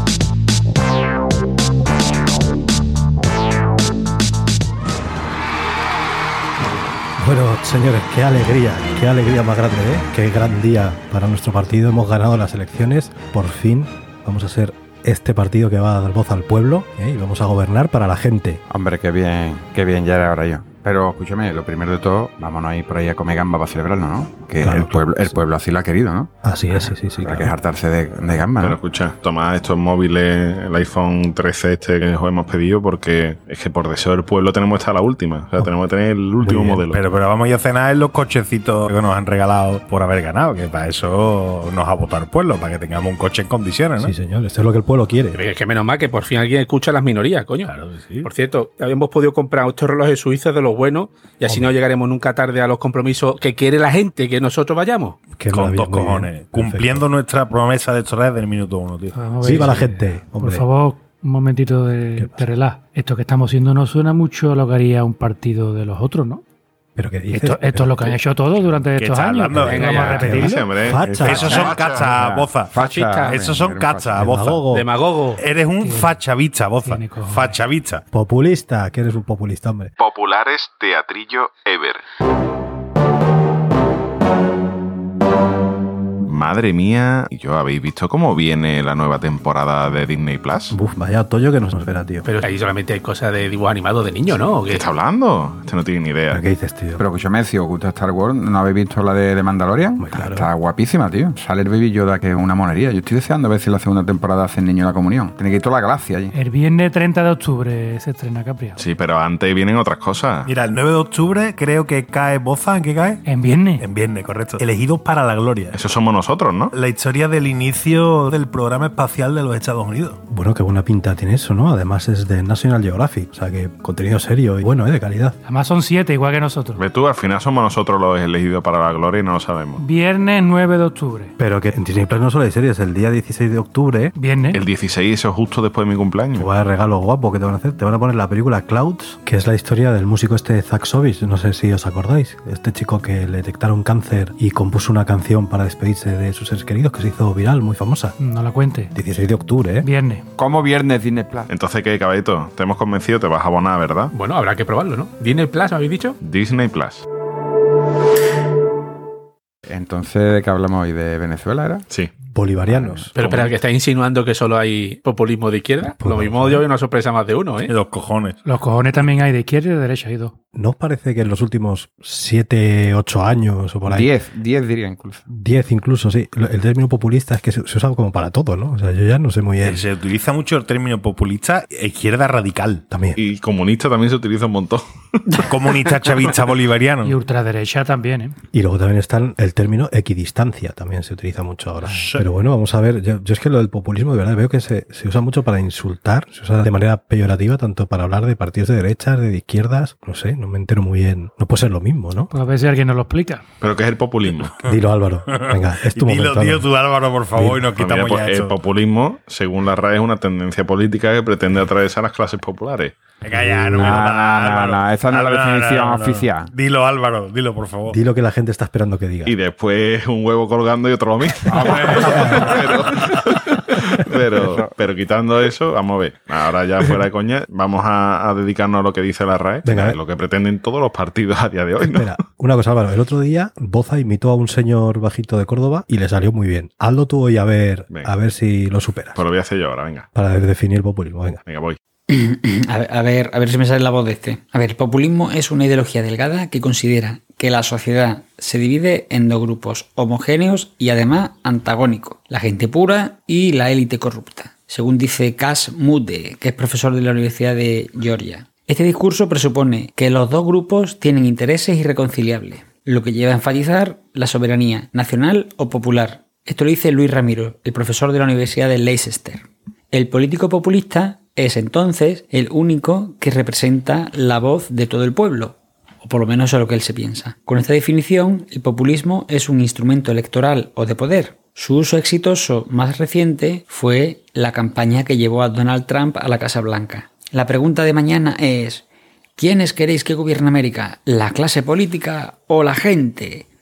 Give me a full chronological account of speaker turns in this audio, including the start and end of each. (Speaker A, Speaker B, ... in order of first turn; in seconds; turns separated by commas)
Speaker A: 7.2-18.6, Speaker B: 18.7-26.3, Speaker A: 24.6-25.4, Speaker A: 26.4-27.5, Speaker B: 26.8-28.8, Speaker C: 28.6-37.0, Speaker A: 36.4-36.8, Speaker D: 36.9-44.1, Speaker A: 44.0-45.4, Speaker E: 45.3-47.7, Speaker D: 47.6-48.3, Speaker E: 48.2-55.2, Speaker A: 55.4-57.0, Speaker D: 55.5-59.1, Speaker F: 59.1-66.4, Speaker A: 59.4-60.6, Speaker A: 62.2-62.4, Speaker A: 67.0-68.2, Speaker F: 67.3-70.6, Speaker D: 69.0-72.7, Speaker A: 69.5-71.7, Speaker E: 69.6-70.2, Speaker C: 70.3-72.1, Speaker B: 71.0-74.3, Speaker E: 72.8-73.4, Speaker D: 73.2-74.6, Speaker A: 74.2-74.9, Speaker E: 74.7-75.4, Speaker D: 75.4-78.0, Speaker F: 75.8-76.2, Speaker F: 76.8-77.6, Speaker A: 78.1-79.9, Speaker C: 80.0-82.0, Speaker C: 86.3-90.8, Speaker A: 90.7-92.2, Speaker E: 92.2-94.8, Speaker C: 94.7-96.4, Speaker A: 96.3-97.0, Speaker B: 97.0-106.3, Speaker A: 100.0-100.5, Speaker F: 106.3-108.8, Speaker C: 108.8-110.5, Speaker D: 110.5-113.2, Speaker F: 113.2-113.8, Speaker D: 113.8-115.8, Speaker C: 115.7-116.7, Speaker D: 116.7-120.2, Speaker A: 120.3-125.4, Speaker F: 125.5-126.8, Speaker C: 126.8-129.8, Speaker F: 129.8-131.3, Speaker A: 131.4-134.1, Speaker F: 134.1-134.6, Speaker C: 134.5-136.5, Speaker A: 136.4-148.2, Speaker F: 148.2-148.9, Speaker A: 148.9-149.9, Speaker F: 149.8-150.2, Speaker B: 150.4-151.5, Speaker C: 151.5-154.1, Speaker E: 154.1-156.2, Speaker C: 156.2-157.0, Speaker B: 159.7-161.8, Speaker A: 162.3-163.1, Speaker B: 162.7-163.1, Speaker E: 163.2-167.7, Speaker C: 163.2-163.5, Speaker A: 166.0-166.6, Speaker D: 167.6-168.4, Speaker F: 168.4-170.3, Speaker A: 170.5-174.1, Speaker B: 173.9-175.2, Speaker A: 175.3-179.8, Speaker D: 179.6-182.8, Speaker A: 182.9-183.2, Speaker C: 183.2-185.4, Speaker D: 185.4-187.2, Speaker F: 187.0-188.3, Speaker A: 188.5-202.3, Speaker D: 191.8-192.2, Speaker F: 202.3-203.4, Speaker C: 203.6-204.6, Speaker A: 204.6-206.7, Speaker D: 205.3-208.6, Speaker A: 207.3-207.6, Speaker C: 207.7-212.9, Speaker D: 213.2-218.0, Speaker A: 213.4-213.9, Speaker B: 213.6-216.5, Speaker A: 217.9-219.3, Speaker C: 219.2-232.1, Speaker B: 221.5-221.9, Speaker D: 221.6-223.2, Speaker A: 222.0-222.7, Speaker A: 229.6-230.0, Speaker A: 231.8-239.2, Speaker C: 239.2-240.1, Speaker A: 240.1-241.4, Speaker C: 241.4-241.8, Speaker G: 242.1-288.8, Speaker G: 289.4-293.5